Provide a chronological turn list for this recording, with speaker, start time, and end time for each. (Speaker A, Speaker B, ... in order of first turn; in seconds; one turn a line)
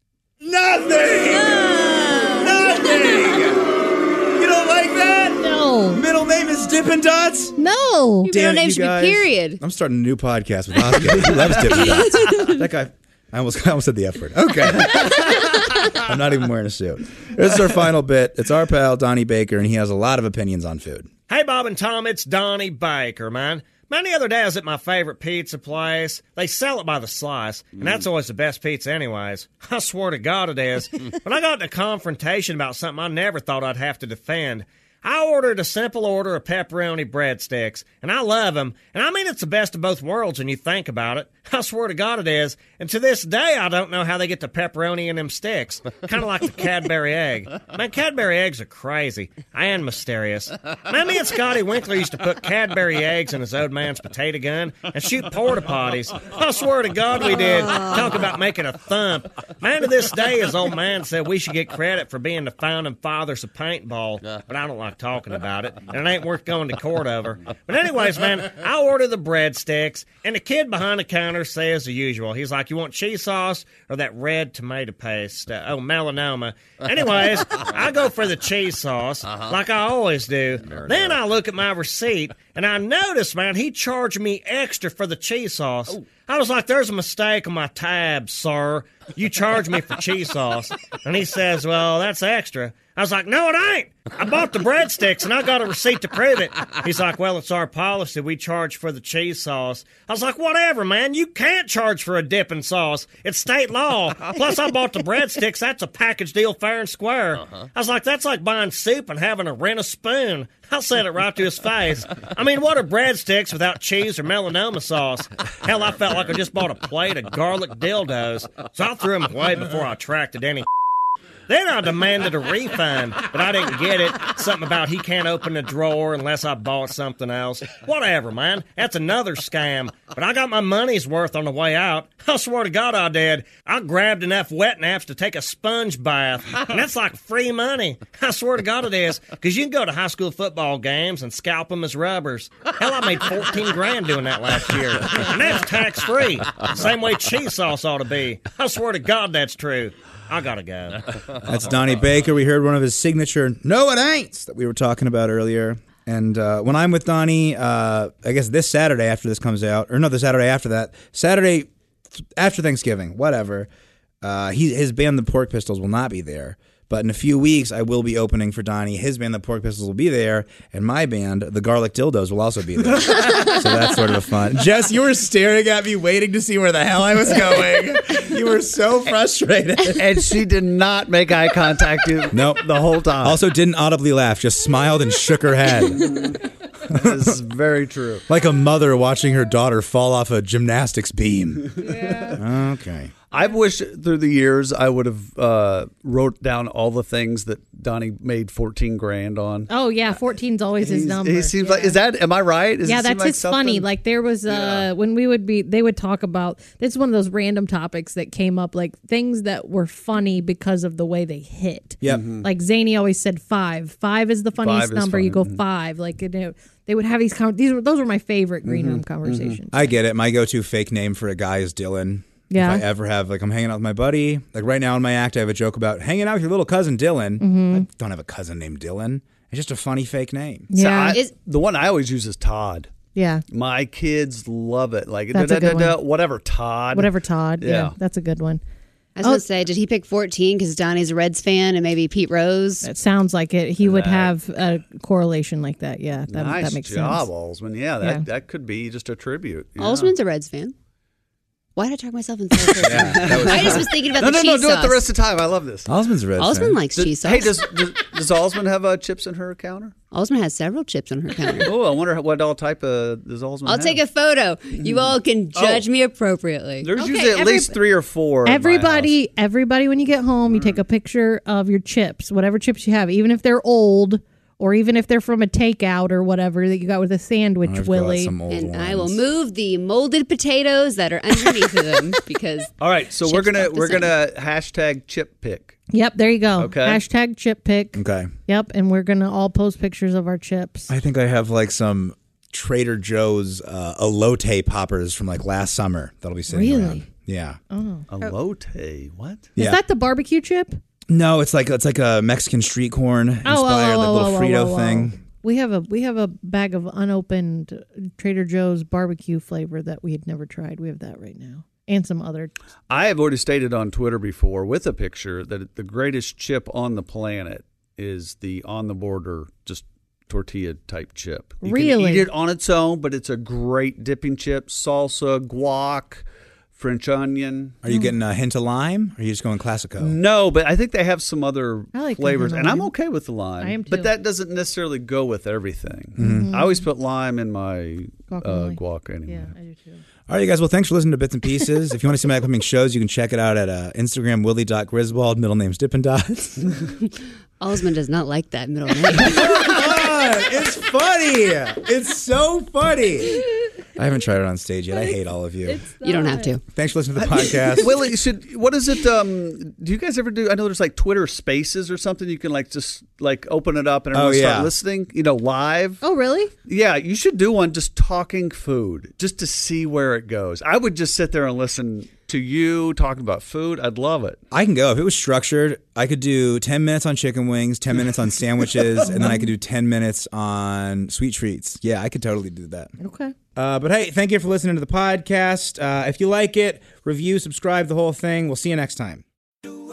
Speaker A: 0.4-7.5
Speaker B: 5.4-6.0
Speaker B: 7.6-8.3
Speaker C: 8.2-9.6
Speaker A: 8.3-21.1
Speaker D: 21.3-120.7
Speaker D: 121.5-151.0
Speaker A: 151.4-161.7
Speaker A: 162.2-163.7
Speaker A: 164.2-180.1
Speaker E: 179.9-183.4
Speaker A: 182.3-182.7
Speaker A: 183.2-186.3
Speaker E: 186.1-186.3
Speaker E: 186.9-188.2
Speaker A: 186.9-187.3
Speaker A: 188.3-193.1
Speaker E: 192.1-192.3
Speaker E: 193.3-199.7
Speaker B: 199.7-202.0
Speaker E: 200.8-203.9
Speaker B: 202.8-219.9
Speaker E: 204.5-204.9
Speaker E: 212.0-212.5
Speaker E: 214.6-215.6
Speaker E: 218.6-219.6
Speaker A: 219.7-230.7
Speaker B: 222.5-222.8
Speaker B: 227.4-227.8
Speaker B: 230.7-231.2
Speaker E: 230.7-232.9
Speaker B: 233.1-233.4
Speaker E: 233.5-237.9
Speaker B: 235.3-236.0
Speaker B: 236.9-238.6
Speaker C: 239.2-242.9
Speaker B: 242.8-247.3
Speaker E: 243.8-244.3
Speaker E: 246.3-250.1
Speaker C: 249.8-250.7
Speaker C: 251.8-255.1
Speaker E: 252.8-255.9
Speaker A: 252.8-253.9
Speaker A: 255.8-256.8
Speaker C: 256.4-257.7
Speaker E: 256.9-259.9
Speaker C: 260.1-261.7
Speaker E: 261.6-264.0
Speaker C: 263.6-266.9
Speaker E: 264.8-265.9
Speaker E: 266.8-269.1
Speaker B: 266.9-267.8
Speaker B: 268.4-278.3
Speaker E: 270.5-270.8
Speaker A: 277.6-279.2
Speaker C: 278.5-282.7
Speaker E: 282.8-285.8
Speaker C: 283.2-284.1
Speaker B: 285.9-290.9
Speaker E: 286.6-287.0
Speaker A: 287.9-288.3
Speaker A: 290.9-297.6
Speaker B: 296.5-297.0
Speaker B: 297.7-298.3
Speaker E: 298.1-299.5
Speaker B: 299.6-300.8
Speaker A: 301.1-305.2
Speaker B: 303.4-312.5
Speaker E: 312.9-327.8
Speaker B: 321.6-322.3
Speaker A: 327.8-330.2
Speaker E: 330.0-339.5
Speaker B: 331.9-332.9
Speaker B: 333.6-334.1
Speaker A: 336.2-336.5
Speaker B: 336.2-336.8
Speaker B: 338.3-340.0
Speaker A: 340.3-346.7
Speaker C: 347.6-349.8
Speaker A: 349.1-355.9
Speaker B: 355.7-356.5
Speaker C: 356.0-356.6
Speaker A: 356.7-358.0
Speaker B: 357.4-357.7
Speaker E: 357.8-366.0
Speaker A: 364.1-364.7
Speaker B: 366.0-366.5
Speaker E: 366.6-374.4
Speaker A: 374.5-382.9
Speaker B: 379.1-379.5
Speaker B: 383.0-383.3
Speaker A: 383.6-389.2